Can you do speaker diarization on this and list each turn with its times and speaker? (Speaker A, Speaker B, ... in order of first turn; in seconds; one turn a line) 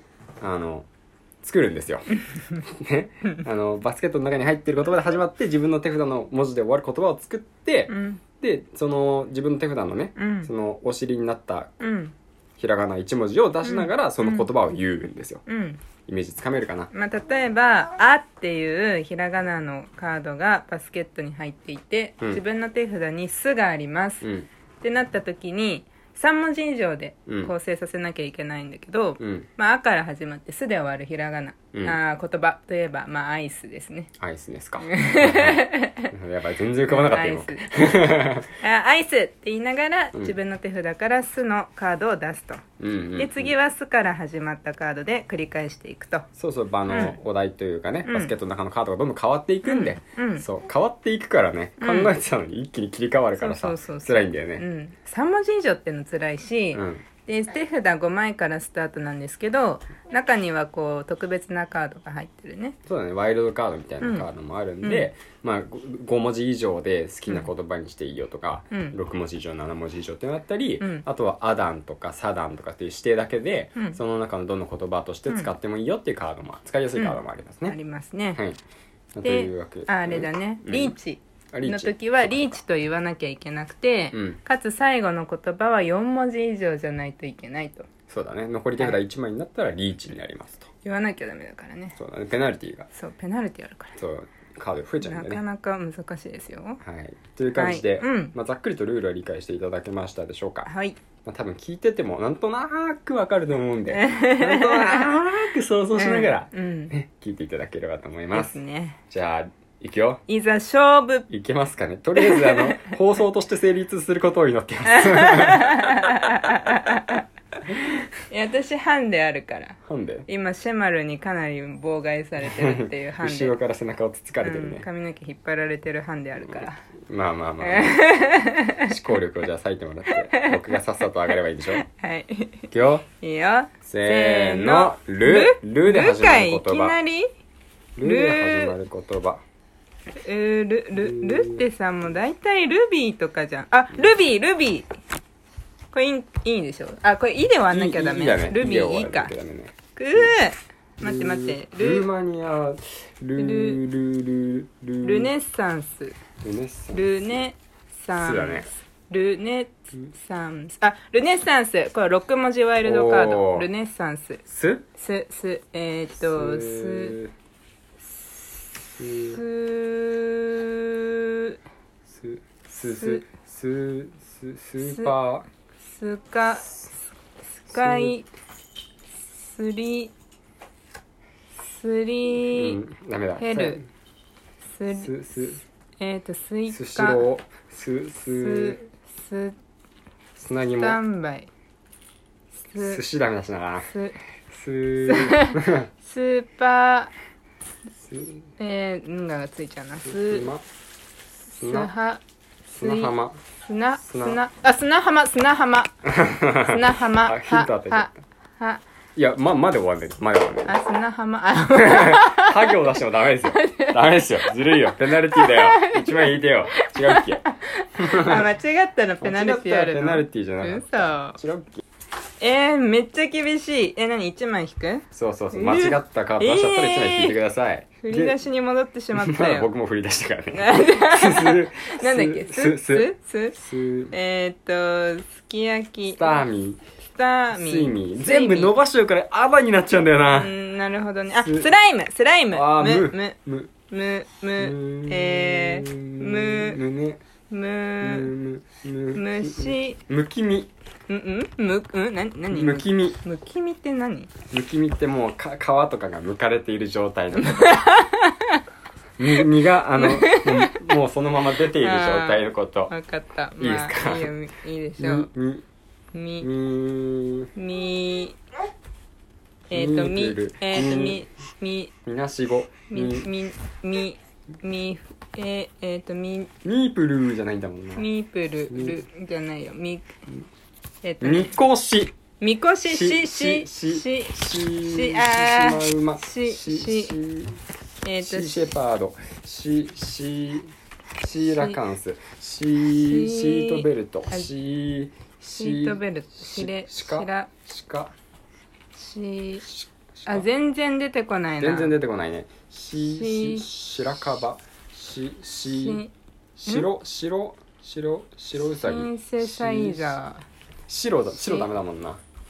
Speaker A: 0.4-0.9
Speaker A: 1.4-2.1
Speaker B: 2.3-2.6
Speaker A: 2.7-11.7
Speaker B: 7.9-8.2
Speaker B: 10.2-10.5
Speaker B: 11.8-12.1
Speaker A: 12.6-15.4
Speaker B: 13.6-14.5
Speaker B: 15.5-15.8
Speaker A: 16.1-16.9
Speaker B: 16.9-24.3
Speaker A: 24.2-24.5
Speaker B: 24.8-34.1
Speaker A: 27.3-27.5
Speaker A: 29.2-29.5
Speaker A: 31.7-32.0
Speaker A: 34.2-38.5
Speaker B: 34.8-36.1
Speaker B: 36.9-37.7
Speaker B: 38.6-46.3
Speaker A: 42.8-43.5
Speaker A: 46.4-54.6
Speaker B: 46.9-47.2
Speaker B: 48.1-48.3
Speaker B: 49.6-50.5
Speaker B: 51.8-52.1
Speaker B: 53.4-62.8
Speaker A: 56.7-57.0
Speaker A: 62.9-77.8
Speaker B: 64.0-64.3
Speaker B: 64.8-65.1
Speaker B: 68.7-69.0
Speaker B: 77.0-78.4
Speaker A: 79.2-81.0
Speaker B: 79.2-87.9
Speaker A: 81.5-82.6
Speaker A: 84.1-84.4
Speaker A: 88.1-90.7
Speaker B: 90.8-92.0
Speaker A: 92.0-92.9
Speaker B: 92.9-94.0
Speaker A: 94.0-95.4
Speaker B: 95.0-96.8
Speaker A: 96.8-100.7
Speaker B: 97.5-98.3
Speaker B: 100.7-101.0
Speaker A: 101.2-108.6
Speaker B: 103.9-105.1
Speaker B: 106.0-106.9
Speaker B: 108.3-109.0
Speaker A: 109.1-110.2
Speaker B: 110.3-111.3
Speaker A: 111.3-116.5
Speaker B: 112.2-113.0
Speaker B: 114.9-117.2
Speaker B: 118.3-123.5
Speaker A: 119.9-120.3
Speaker A: 122.4-124.9
Speaker B: 124.4-126.8
Speaker A: 126.4-128.1
Speaker B: 127.6-129.0
Speaker A: 128.8-131.8
Speaker B: 130.2-130.7
Speaker B: 131.8-132.7
Speaker A: 132.7-133.1
Speaker B: 133.2-137.3
Speaker A: 133.9-137.0
Speaker A: 138.0-139.4
Speaker B: 138.0-138.8
Speaker B: 140.2-144.9
Speaker A: 140.9-141.7
Speaker B: 145.9-149.3
Speaker A: 147.7-150.3
Speaker B: 149.9-152.1
Speaker A: 151.0-155.3
Speaker B: 153.4-153.8
Speaker B: 155.0-156.2
Speaker A: 156.4-157.2
Speaker B: 156.9-164.4
Speaker A: 158.2-158.7
Speaker A: 162.8-163.7
Speaker A: 164.5-164.9
Speaker B: 165.0-167.2
Speaker A: 166.2-167.3
Speaker B: 168.8-171.6
Speaker A: 169.0-169.4
Speaker A: 172.1-175.5
Speaker B: 172.9-173.3
Speaker B: 174.8-175.1
Speaker B: 175.8-176.8
Speaker B: 177.6-178.3
Speaker A: 177.7-178.2
Speaker B: 179.3-180.1
Speaker B: 181.6-182.8
Speaker A: 182.5-183.9
Speaker B: 183.4-183.8
Speaker B: 184.8-185.1
Speaker A: 184.9-185.6
Speaker B: 186.0-187.2
Speaker A: 186.7-188.8
Speaker B: 188.3-189.6
Speaker A: 190.4-191.0
Speaker B: 190.8-191.5
Speaker B: 192.7-193.0
Speaker A: 192.8-193.9
Speaker B: 193.9-194.2
Speaker A: 194.5-195.9
Speaker B: 195.0-197.1
Speaker A: 198.0-198.5
Speaker B: 198.6-200.5
Speaker A: 200.1-200.6
Speaker B: 201.5-202.2
Speaker A: 201.6-201.9
Speaker A: 202.7-203.4
Speaker B: 202.8-203.1
Speaker B: 203.7-205.9
Speaker A: 204.0-204.4
Speaker A: 206.1-208.1
Speaker B: 206.7-208.8
Speaker A: 209.2-210.7
Speaker B: 210.7-212.8
Speaker A: 211.7-217.4
Speaker B: 213.4-221.4
Speaker A: 218.0-218.5
Speaker A: 219.2-221.8
Speaker B: 222.4-227.4
Speaker A: 225.1-228.4
Speaker B: 228.0-229.7
Speaker A: 229.2-234.1
Speaker B: 230.5-233.6
Speaker B: 234.1-236.5
Speaker A: 236.1-236.8
Speaker B: 237.2-238.7
Speaker A: 237.5-240.5
Speaker B: 240.4-243.4
Speaker A: 241.4-241.7
Speaker A: 242.5-243.7
Speaker B: 243.9-246.8
Speaker A: 244.6-247.2
Speaker B: 247.5-248.3
Speaker A: 248.0-250.7
Speaker B: 249.2-250.0
Speaker B: 251.1-254.3
Speaker A: 252.5-253.2
Speaker A: 254.5-257.8
Speaker B: 257.4-258.6
Speaker A: 259.2-262.9
Speaker B: 260.0-260.7
Speaker B: 261.8-265.3
Speaker A: 263.6-264.3
Speaker A: 265.0-265.6
Speaker B: 266.1-266.5
Speaker A: 266.4-267.5
Speaker B: 267.6-268.4
Speaker A: 269.7-271.2
Speaker B: 269.7-271.9
Speaker A: 272.1-273.3
Speaker B: 272.9-276.5
Speaker A: 276.6-278.1
Speaker B: 278.0-280.1
Speaker A: 278.7-279.0
Speaker B: 281.0-281.6
Speaker A: 281.2-282.1
Speaker B: 282.4-287.1
Speaker A: 282.9-287.6
Speaker B: 288.0-288.7
Speaker A: 288.2-298.1
Speaker B: 291.5-291.8
Speaker B: 292.9-294.5
Speaker B: 295.6-297.5
Speaker B: 298.9-299.6
Speaker A: 299.6-300.5
Speaker B: 300.3-301.9
Speaker A: 301.6-306.0
Speaker B: 303.1-303.7
Speaker B: 305.8-306.1
Speaker A: 306.6-310.2
Speaker B: 308.6-310.4
Speaker A: 310.9-312.2